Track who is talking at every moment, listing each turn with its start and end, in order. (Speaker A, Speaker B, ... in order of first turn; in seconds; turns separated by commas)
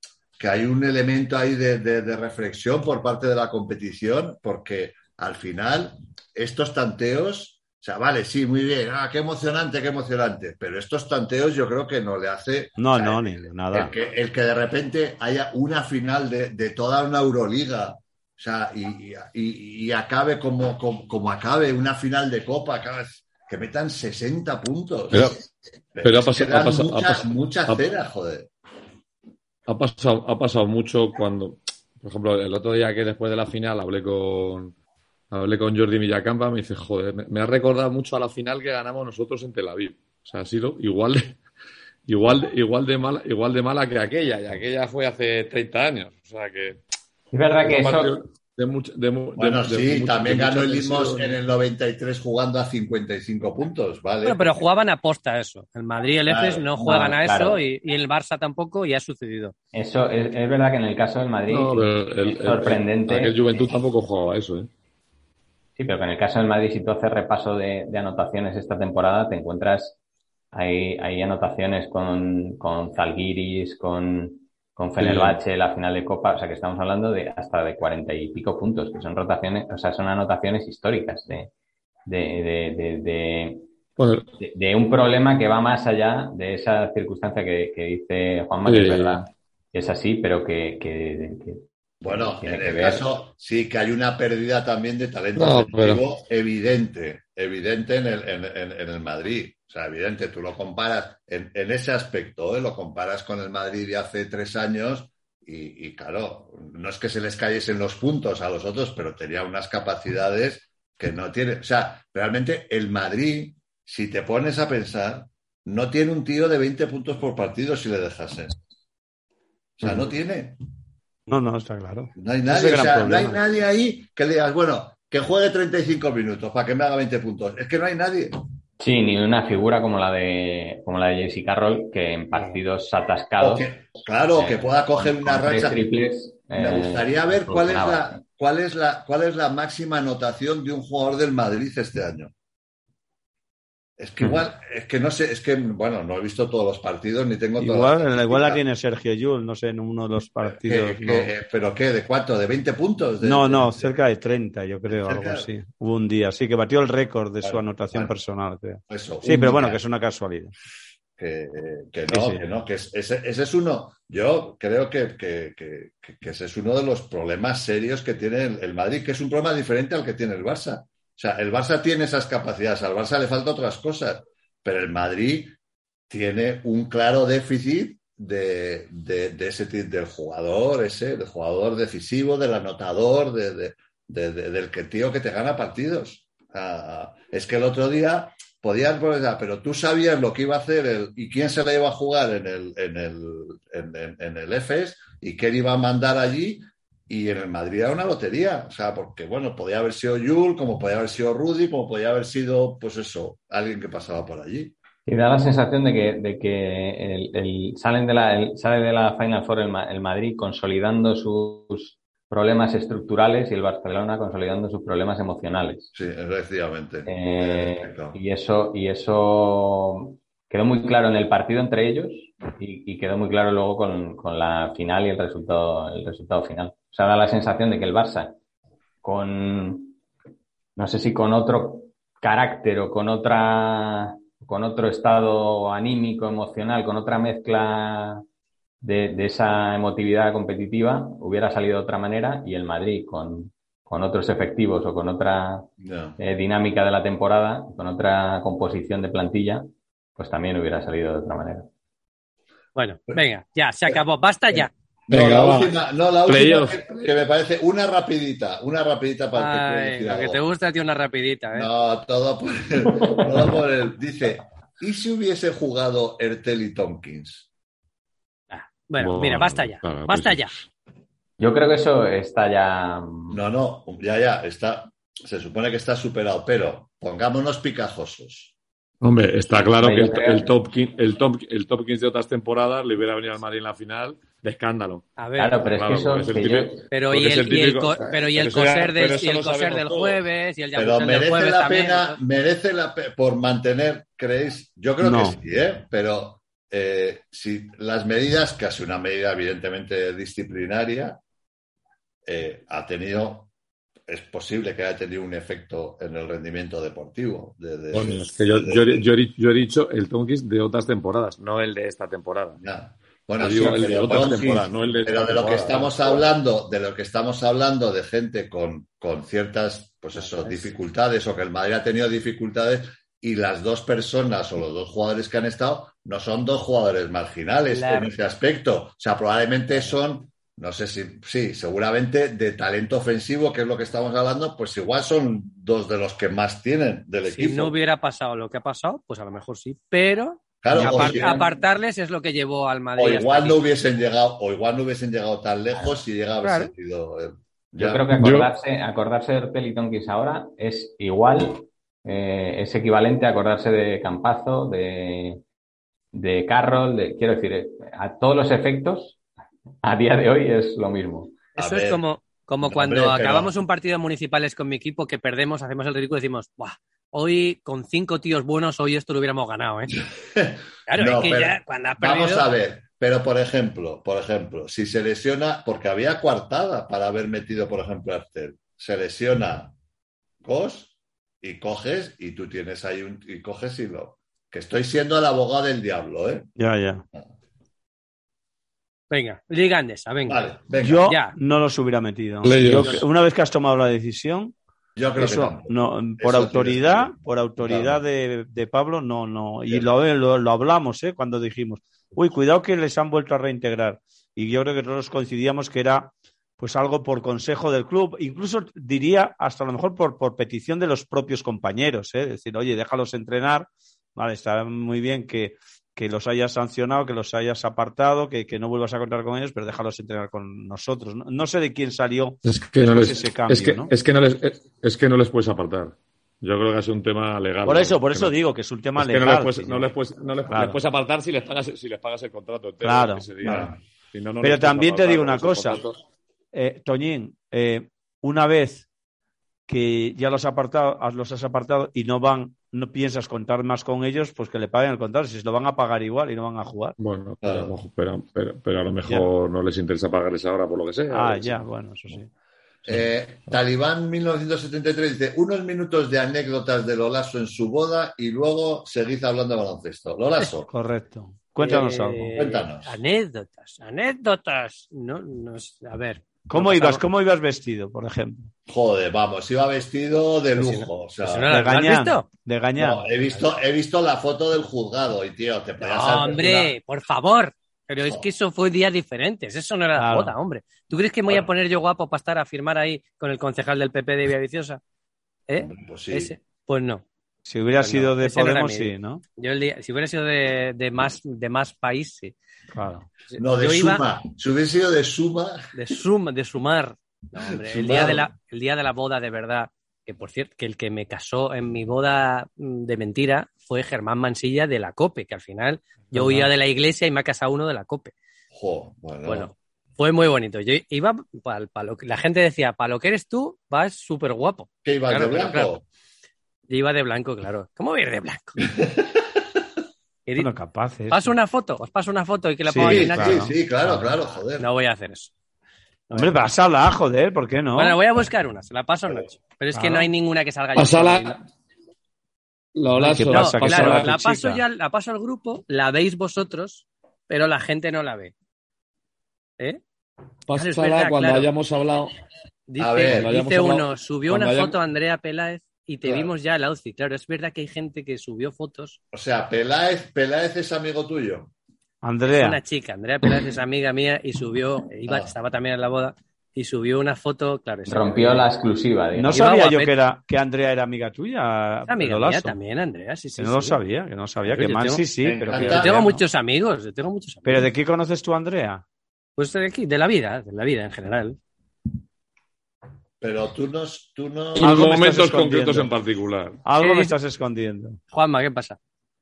Speaker A: 0.4-25.4, Speaker B: 12.8-13.9, Speaker C: 25.1-25.4, Speaker A: 25.9-28.5, Speaker C: 26.0-27.8, Speaker C: 29.7-34.7, Speaker C: 35.3-41.4, Speaker C: 42.1-46.8, Speaker D: 47.3-48.2, Speaker C: 47.6-51.4, Speaker A: 49.4-54.6, Speaker E: 54.2-59.5, Speaker A: 56.3-56.8, Speaker D: 56.8-57.6, Speaker D: 59.7-63.4, Speaker C: 61.5-64.7, Speaker D: 65.8-70.0, Speaker D: 70.5-81.5, Speaker C: 75.0-75.4, Speaker D: 82.1-83.7, Speaker C: 84.0-84.3, Speaker D: 84.4-93.1, Speaker C: 88.7-89.2, Speaker A: 92.0-118.6, Speaker C: 95.4-96.0, Speaker A: 119.8-120.6, Speaker B: 119.8-120.1, Speaker B: 121.3-123.4, Speaker A: 122.2-128.4, Speaker D: 128.8-133.7, Speaker A: 133.4-135.8, Speaker D: 134.3-138.2, Speaker A: 136.6-142.3, Speaker A: 144.0-148.6, Speaker B: 147.6-151.3, Speaker A: 150.5-153.9, Speaker B: 153.2-160.5, Speaker A: 154.9-155.5, Speaker A: 157.4-158.1, Speaker A: 158.9-159.8, Speaker A: 161.2-175.6, Speaker B: 162.1-162.4, Speaker A: 176.1-204.8, Speaker D: 205.1-215.9, Speaker A: 215.9-218.2, Speaker D: 217.1-228.4, Speaker D: 229.0-230.0, Speaker D: 230.8-238.2, Speaker D: 238.8-251.7, Speaker A: 245.8-246.2, Speaker E: 252.8-254.7, Speaker A: 255.1-260.4, Speaker C: 255.1-257.0, Speaker E: 259.4-261.7, Speaker A: 261.5-267.5, Speaker E: 268.5-270.5, Speaker C: 269.0-270.6, Speaker D: 271.4-273.4, Speaker A: 273.3-278.5, Speaker C: 279.0-285.1, Speaker D: 279.8-280.5, Speaker E: 285.2-285.6, Speaker D: 285.4-286.9, Speaker C: 285.6-290.2, Speaker E: 286.9-292.2, Speaker A: 290.8-301.2, Speaker B: 295.0-295.4, Speaker A: 302.3-303.5, Speaker A: 304.1-309.0, Speaker C: 307.9-312.6, Speaker A: 312.6-337.8, Speaker C: 313.4-316.2, Speaker E: 320.1-320.7, Speaker E: 327.7-328.1, Speaker E: 337.3-343.6, Speaker A: 340.6-341.4, Speaker D: 340.8-341.4, Speaker A: 343.0-348.1, Speaker E: 346.4-346.7, Speaker D: 347.8-355.4, Speaker C: 348.1-348.5, Speaker D: 356.1-359.2, Speaker D: 359.8-361.5, Speaker E: 361.6-369.9, Speaker A: 361.6-362.0, Speaker A: 362.7-363.5, Speaker A: 370.2-379.7, Speaker E: 370.9-372.5, Speaker A: 380.4-386.5, Speaker B: 386.6-387.0, Speaker E: 389.1-390.5, Speaker A: 390.3-391.1, Speaker B: 390.8-394.6, Speaker E: 391.1-391.4, Speaker C: 392.4-393.0, Speaker A: 392.7-393.1, Speaker A: 395.0-398.0, Speaker B: 395.1-423.9, Speaker C: 422.4-428.3, Speaker B: 427.6-429.9, Speaker C: 429.0-436.0, Speaker B: 430.5-430.8, Speaker B: 432.8-433.6, Speaker A: 433.4-433.7, Speaker B: 434.4-435.8, Speaker B: 436.5-438.9, Speaker B: 439.7-447.0, Speaker C: 447.0-451.6, Speaker A: 447.4-447.7, Speaker B: 451.1-452.3, Speaker A: 452.9-460.7, Speaker B: 460.7-462.4, Speaker E: 461.6-467.0, Speaker A: 462.4-463.0, Speaker B: 466.5-468.5, Speaker A: 468.7-471.5, Speaker E: 470.6-472.3, Speaker B: 471.5-473.1, Speaker A: 472.8-476.8, Speaker E: 475.8-484.8, Speaker B: 480.0-480.3, Speaker E: 485.5-487.0, Speaker A: 485.6-486.3, Speaker B: 487.5-489.2, Speaker E: 487.8-492.4, Speaker B: 492.7-493.1, Speaker E: 493.3-494.1, Speaker A: 493.4-495.7, Speaker E: 495.7-508.1, Speaker A: 497.7-498.3, Speaker B: 506.1-506.5, Speaker A: 508.5-509.5, Speaker E: 509.3-515.7, Speaker A: 514.8-515.8, Speaker E: 516.7-518.6, Speaker A: 518.7-519.1, Speaker B: 520.4-521.3, Speaker E: 521.1-523.5, Speaker B: 522.7-524.1, Speaker A: 522.8-524.7, Speaker E: 524.6-525.3, Speaker E: 526.1-526.3, Speaker B: 526.1-528.0, Speaker E: 527.8-531.4, Speaker B: 529.7-530.1, Speaker C: 530.8-531.4, Speaker C: 532.8-534.1, Speaker B: 533.0-534.6, Speaker E: 533.3-538.3, Speaker C: 540.5-542.1, Speaker E: 540.6-541.5, Speaker E: 542.7-549.0, Speaker A: 542.8-543.3, Speaker C: 543.1-544.8, Speaker A: 546.0-546.3, Speaker A: 549.1-551.5, Speaker B: 552.0-552.6, Speaker E: 552.3-558.5, Speaker D: 557.9-559.5, Speaker B: 559.1-562.5, Speaker E: 559.3-560.0, Speaker E: 561.9-563.8, Speaker B: 563.4-566.2, Speaker E: 564.5-567.7, Speaker A: 565.2-566.0, Speaker B: 567.5-568.8, Speaker E: 569.4-571.4, Speaker A: 573.2-574.8, Speaker C: 574.6-576.6, Speaker B: 574.6-575.9, Speaker B: 576.6-578.0, Speaker E: 576.8-577.1, Speaker E: 578.1-578.8